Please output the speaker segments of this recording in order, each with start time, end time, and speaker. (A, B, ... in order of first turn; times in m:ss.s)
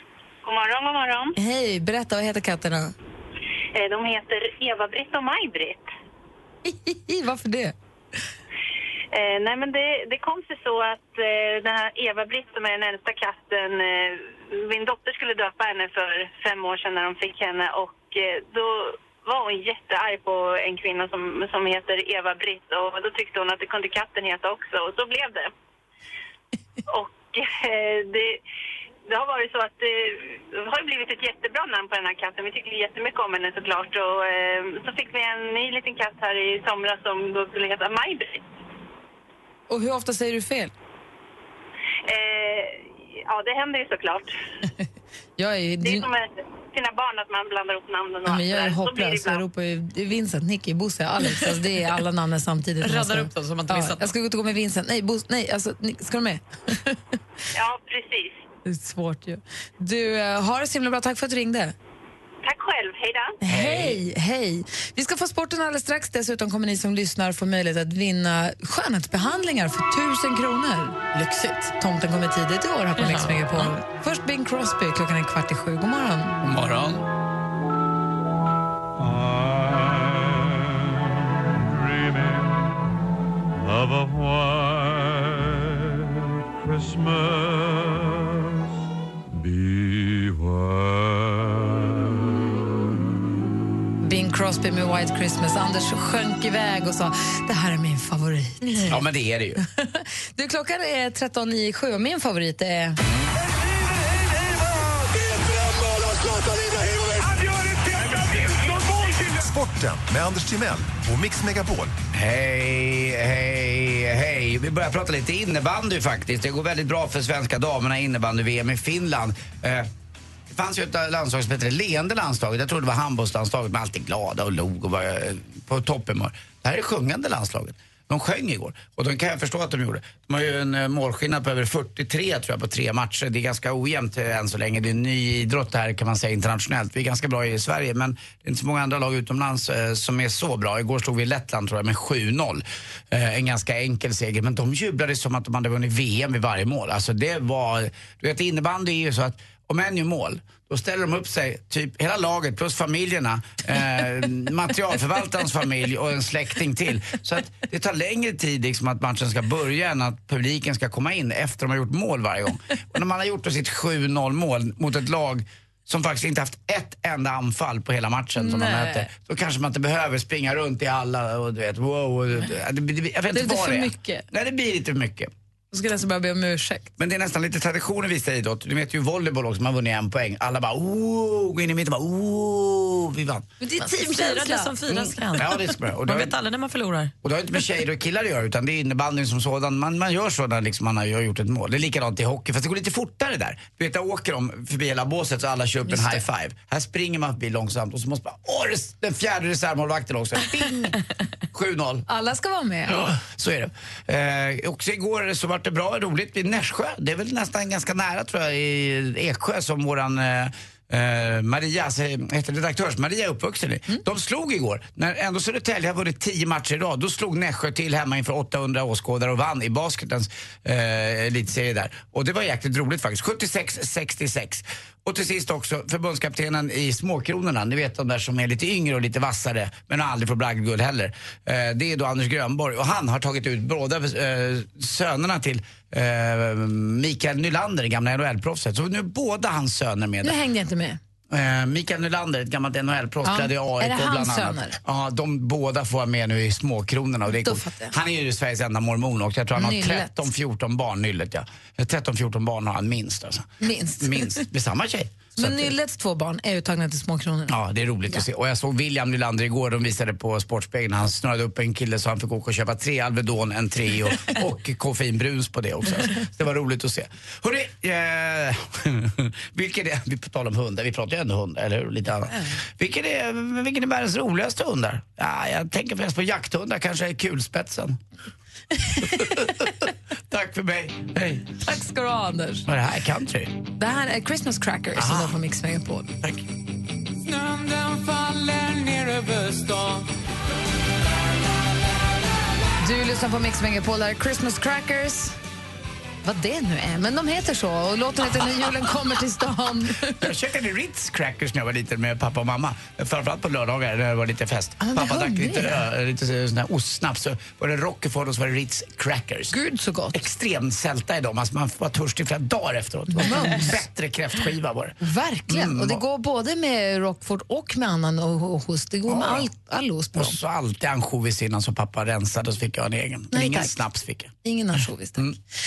0:00.4-0:01.4 A
0:01.4-0:02.9 B
0:03.7-0:05.9 A
0:06.6-0:07.7 B
0:09.1-0:25.5 A
0:26.9-0:28.4 A
0:29.1-0:38.4 A
0:39.7-0:40.7 B
0:42.0-0:44.3 A
0:45.4-0:46.1 B
0:45.8-0:49.4 A
0:48.2-0:57.0 B
0:52.8-0:54.1 C
0:57.5-0:58.4 A
0:58.6-1:01.7 B
1:02.4-1:03.4 A
1:03.4-1:11.1 B
1:03.4-1:04.0 D
1:11.1-1:11.6 C
1:11.6-1:16.4 B
1:13.0-1:13.7 C
1:16.4-1:17.1 D
1:34.0-1:39.0 B
1:38.8-1:39.6 D
1:39.8-1:43.0 B
1:45.4-1:47.4 E
1:48.2-1:51.9 E
1:52.1-1:59.9 D
2:00.5-2:55.3 D
2:48.4-2:49.1 B
2:53.3-2:54.2 B
2:55.7-2:56.9 B
2:57.0-3:03.5 D
3:03.6-3:04.7 B
3:03.8-3:07.1 C
3:04.9-3:06.3 D
3:07.2-3:21.0 D
3:21.5-3:22.0 D
3:22.1-3:23.0 B
3:22.9-4:00.4 D
4:00.2-4:01.0 B
4:01.3-4:15.7 D
4:03.2-4:04.8 B
4:07.3-4:07.9 B
4:09.6-4:10.2 B
4:13.6-4:14.4 B
4:15.4-4:17.6 B
4:17.5-4:38.0 D
4:38.8-4:39.4 B
4:39.0-4:41.5 D
4:41.6-4:42.6 B
4:42.7-4:43.5 D
4:43.8-4:46.2 B
4:44.9-4:45.4 D
4:52.8-4:55.4 B
4:56.2-5:00.2 B
5:00.0-5:09.5 D
5:04.8-5:05.8 B
5:09.5-5:10.2 B
5:10.1-5:16.0 D
5:13.1-5:13.8 B
5:15.0-5:20.4 B
5:19.1-5:19.5 D
5:20.1-5:25.4 D
5:23.3-5:23.8 B
5:24.4-5:25.3 B